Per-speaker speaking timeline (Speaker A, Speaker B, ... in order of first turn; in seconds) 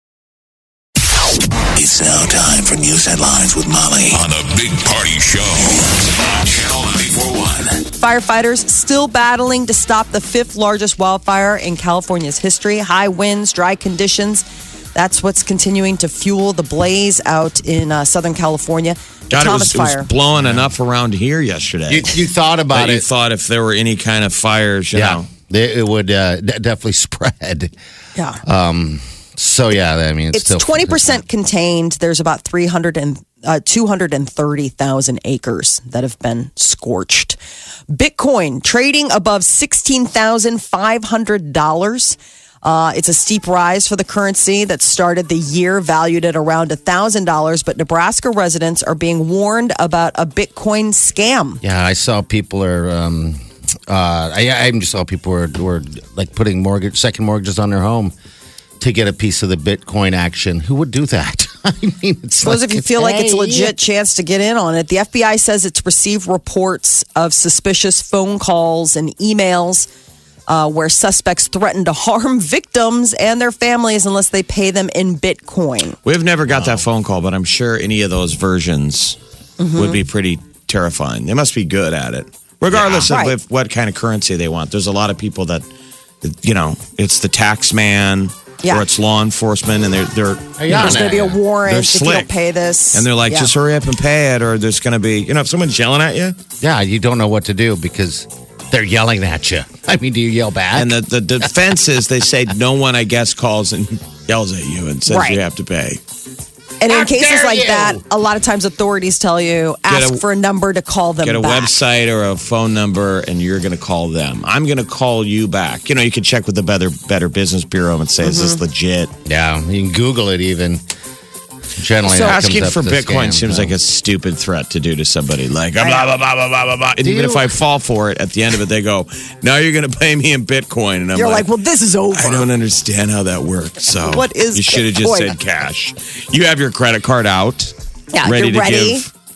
Speaker A: 1.7-7.8
Speaker B: 8.0-14.4, 14.9-20.1, 30.3-37.4, 37.9-51.6, 62.4-69.9, 70.5-76.0, 79.6-80.0, 83.1-83.3, 90.7-93.5, 105.1-105.4, 106.8-111.7, 118.2-118.6, 122.1-122.3, 125.8-126.1, 131.2-132.5, 134.1-135.4, 138.1-139.1
Speaker C: 19.3-22.1, 22.7-25.3, 76.0-79.2, 79.8-85.7, 86.2-92.3, 92.9-96.4, 100.7-106.0, 109.9-110.2, 111.2-119.1, 122.2-131.5, 132.1-139.1
Speaker D: 20.4-20.7, 21.9-23.1, 24.9-27.7, 28.4-31.2, 51.6-58.1, 58.8-63.8, 76.5-76.9, 82.7-83.1, 90.6-91.3, 96.6-100.9, 106.9-108.0, 119.3-120.8, 121.8-123.8, 127.0-127.5